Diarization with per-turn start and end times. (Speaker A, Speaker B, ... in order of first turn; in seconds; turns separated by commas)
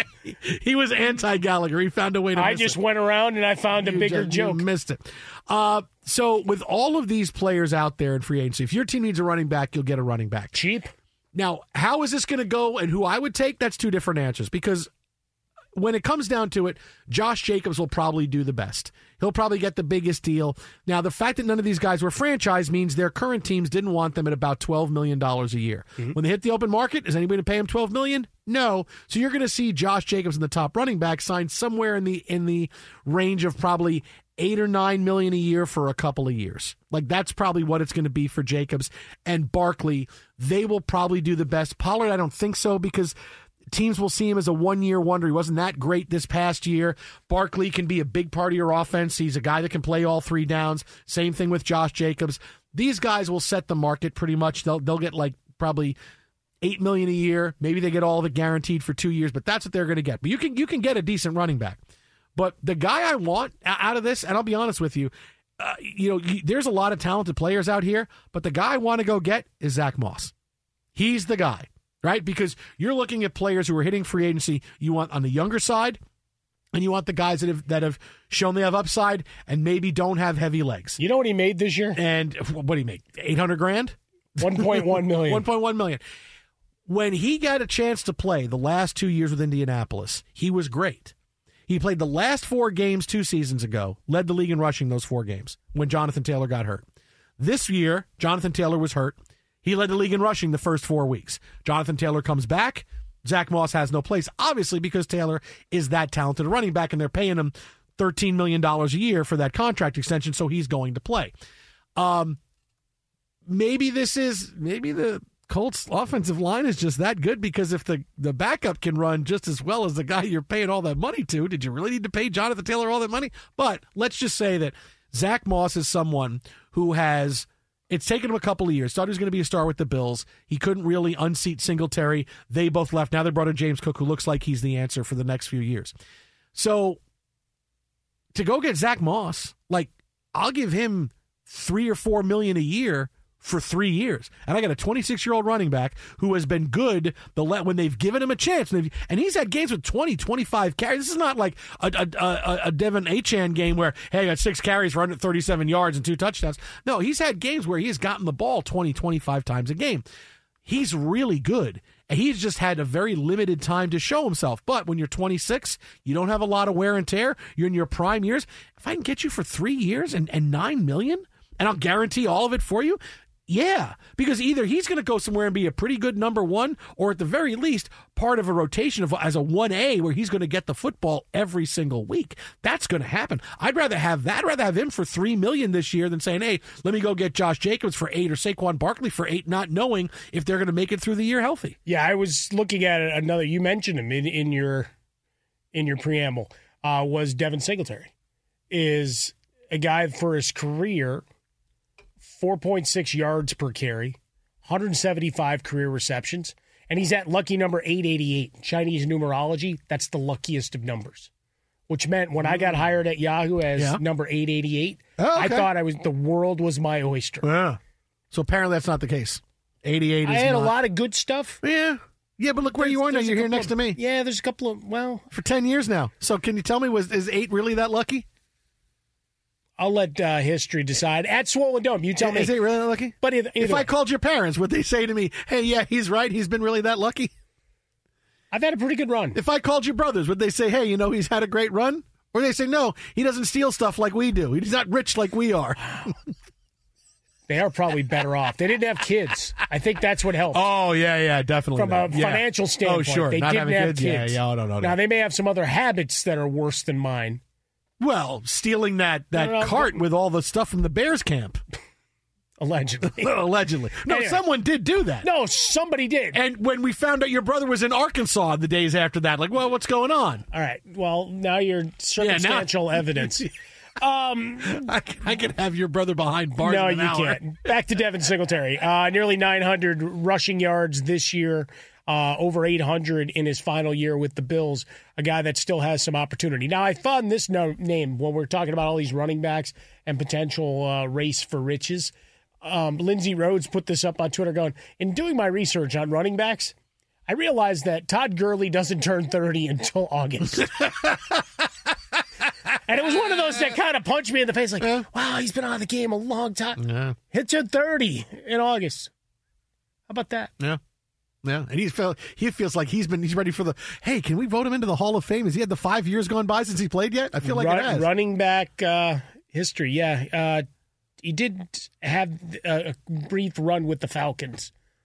Speaker A: 0.2-2.8, Speaker B: 2.3-4.6, Speaker A: 3.8-10.6, Speaker B: 10.5-10.9, Speaker A: 11.3-14.9, Speaker A: 15.8-43.1, Speaker A: 43.7-56.0, Speaker A: 56.6-61.8, Speaker A: 62.3-70.3, Speaker A: 70.9-76.0, Speaker A: 76.7-81.0, Speaker B: 81.0-82.0, Speaker A: 81.9-86.0, Speaker B: 84.4-85.5, Speaker A: 86.9-91.1, Speaker A: 91.7-96.8, Speaker A: 97.4-111.3, Speaker A: 112.0-112.4, Speaker A: 113.5-135.9, Speaker A: 136.5-137.0, Speaker A: 138.3-160.0, Speaker A: 160.6-191.8, Speaker B: 191.9-194.9, Speaker B: 195.7-198.1, Speaker B: 198.7-201.2, Speaker B: 202.2-211.3, Speaker B: 211.9-217.4, Speaker A: 212.4-212.9, Speaker A: 215.2-215.7, Speaker A: 217.4-217.8, Speaker A: 218.3-220.8, Speaker B: 220.2-221.6, Speaker A: 221.6-224.0, Speaker B: 222.7-225.3, Speaker A: 225.3-228.2, Speaker B: 229.8-232.6, Speaker A: 232.2-237.3, Speaker B: 233.2-233.9, Speaker B: 238.5-239.4, Speaker A: 239.3-246.1, Speaker B: 247.5-250.6, Speaker A: 250.5-254.9, Speaker B: 251.8-257.4, Speaker A: 258.0-261.6, Speaker B: 259.3-260.0, Speaker B: 262.6-263.3, Speaker A: 263.1-265.3, Speaker B: 264.1-264.4, Speaker B: 265.2-266.4, Speaker A: 266.3-270.4, Speaker B: 270.5-274.8, Speaker A: 272.2-273.4, Speaker A: 274.6-277.4, Speaker B: 276.6-296.7, Speaker B: 297.3-300.8, Speaker B: 302.9-306.8, Speaker A: 304.8-305.1, Speaker A: 306.8-307.1, Speaker B: 307.3-309.1, Speaker B: 310.1-310.5, Speaker A: 311.4-318.1, Speaker B: 317.4-320.6, Speaker B: 321.2-324.7